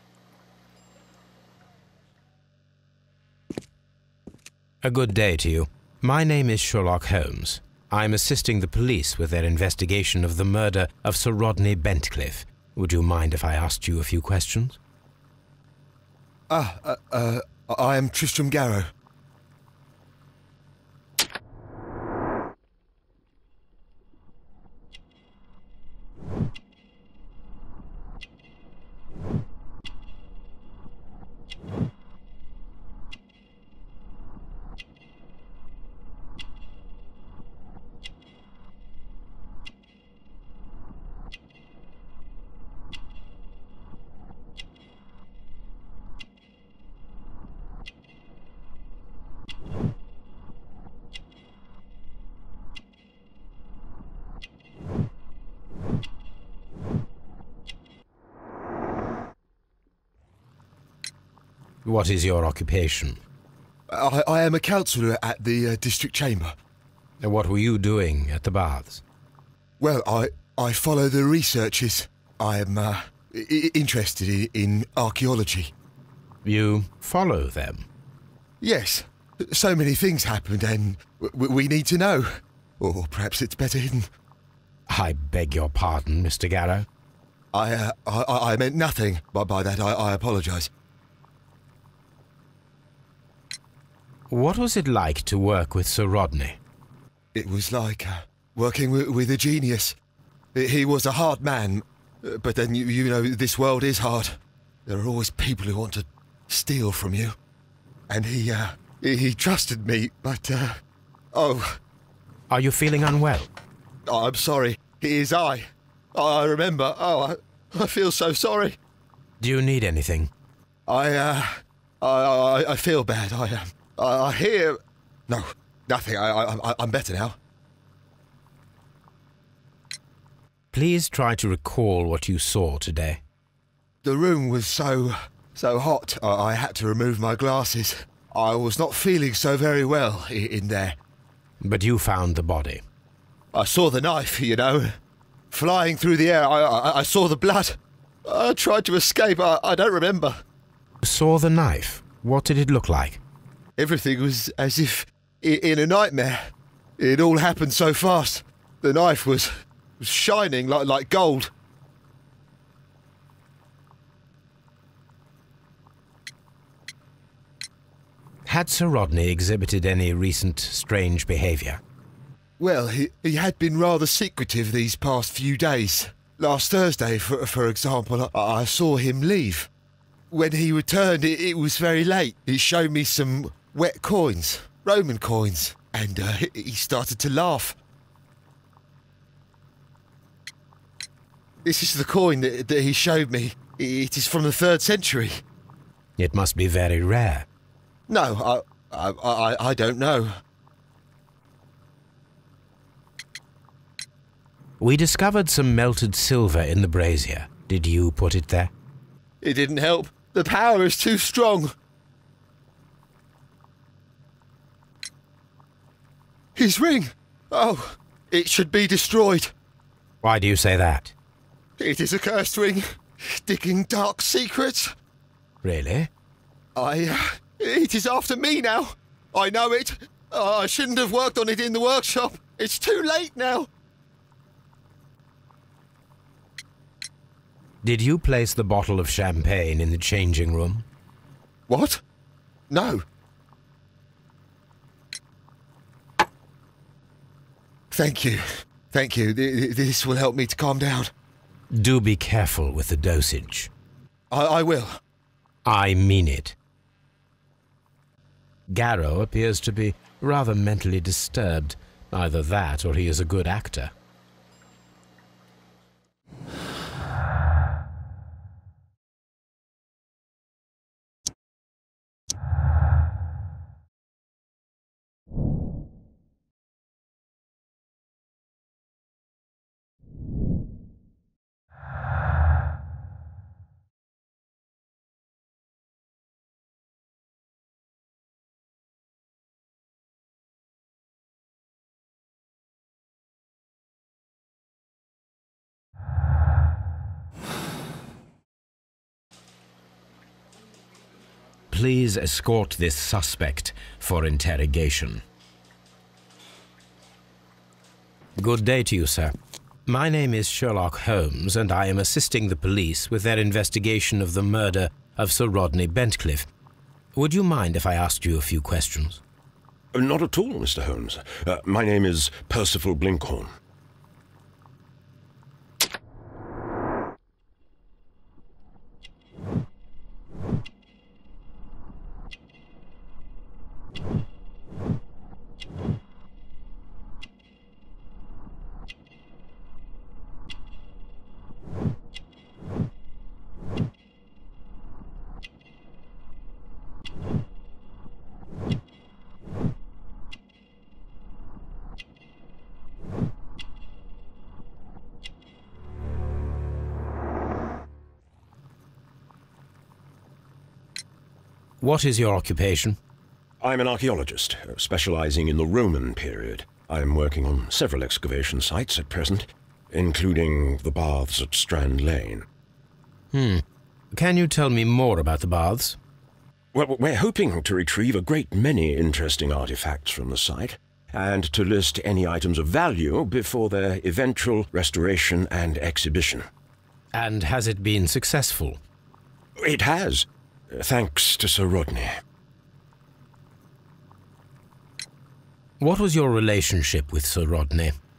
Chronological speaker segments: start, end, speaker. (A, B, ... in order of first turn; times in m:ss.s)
0:04.8-0:14.8 A
0:16.5-0:18.9 B
1:01.8-1:03.2 A
1:03.9-1:06.5 B
1:07.2-1:09.0 A
1:09.8-1:15.7 B
1:16.4-1:17.9 A
1:18.6-1:24.1 B
1:24.9-1:26.9 A
1:27.5-1:30.7 B
1:34.3-1:36.6 A
1:37.3-1:40.0 B
1:40.6-1:47.4 B
1:48.1-1:50.8 B
1:51.3-1:51.8 B
1:52.5-1:53.5 A
1:54.1-1:58.8 B
1:59.4-2:00.3 A
2:00.9-2:07.4 B
2:10.7-2:13.2 A
2:14.0-2:21.0 B
2:21.6-2:22.8 A
2:23.5-2:24.9 B
2:25.5-2:30.4 B
2:31.0-2:33.2 A
2:33.8-2:36.4 B
2:37.0-2:41.5 B
2:48.4-2:51.8 A
2:52.6-2:59.7 B
3:00.3-3:07.8 B
3:11.6-3:15.4 B
3:16.2-3:17.4 A
3:18.1-3:20.4 B
3:24.8-3:28.7 A
3:29.4-3:31.7 B
3:36.6-3:39.5 B
3:40.2-3:41.1 A
3:41.8-3:42.8 B
3:43.4-3:44.9 B
3:45.6-3:46.1 A
3:46.8-3:53.7 B
3:57.8-4:00.8 A
4:01.7-4:02.0 B
4:02.7-4:03.0 B
4:07.9-4:11.1 B
4:11.7-4:13.7 A
4:14.3-4:15.0 B
4:15.7-4:16.6 A
4:18.7-4:23.9 A
5:01.7-5:05.2 A
5:08.4-5:09.3 A
5:09.9-5:16.5 A
5:17.1-5:19.2 A
5:19.9-5:23.5 C
6:01.8-6:03.0 A
6:03.6-6:12.4 C
6:13.3-6:16.0 A
6:16.7-6:26.5 C
6:27.1-6:28.8 A
6:29.6-6:32.1 C
6:35.8-6:37.9 A